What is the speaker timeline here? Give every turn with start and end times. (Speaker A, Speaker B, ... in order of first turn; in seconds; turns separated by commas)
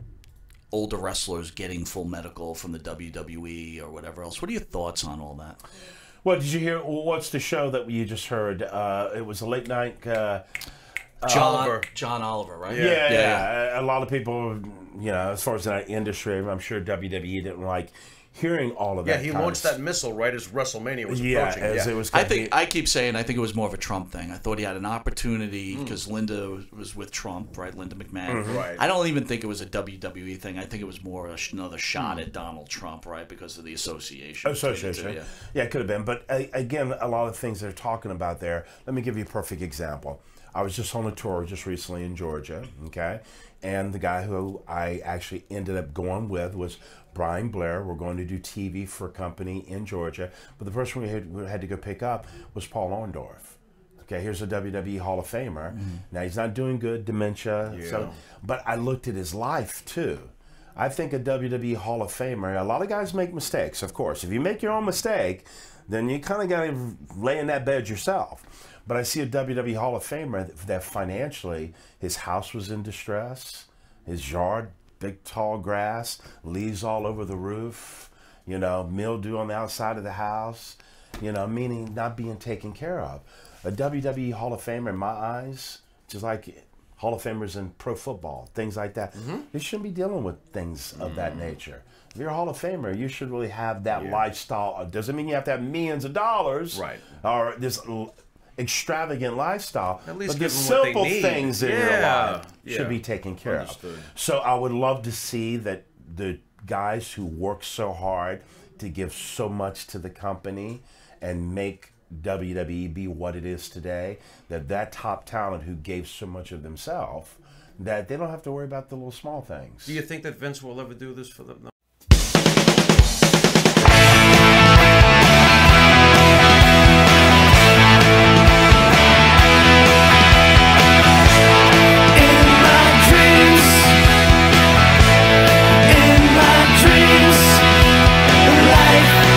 Speaker A: 0.7-5.6, Speaker B: 6.2-10.4, Speaker B: 11.2-11.7, Speaker A: 11.2-13.5, Speaker C: 11.3-11.9, Speaker C: 12.7-13.0, Speaker B: 12.7-19.8, Speaker C: 19.0-22.0, Speaker B: 21.1-22.5, Speaker A: 22.1-35.3, Speaker C: 25.7-26.0, Speaker B: 28.3-28.6, Speaker C: 28.4-28.8, Speaker B: 34.4-120.0, Speaker A: 55.7-56.0, Speaker C: 57.7-58.2, Speaker C: 89.1-89.5, Speaker C: 91.0-91.6, Speaker C: 93.9-94.3, Speaker C: 96.7-97.1, Speaker C: 100.0-104.1, Speaker C: 119.9-121.7, Speaker C: 132.1-133.9, Speaker C: 135.9-137.6, Speaker C: 138.4-139.2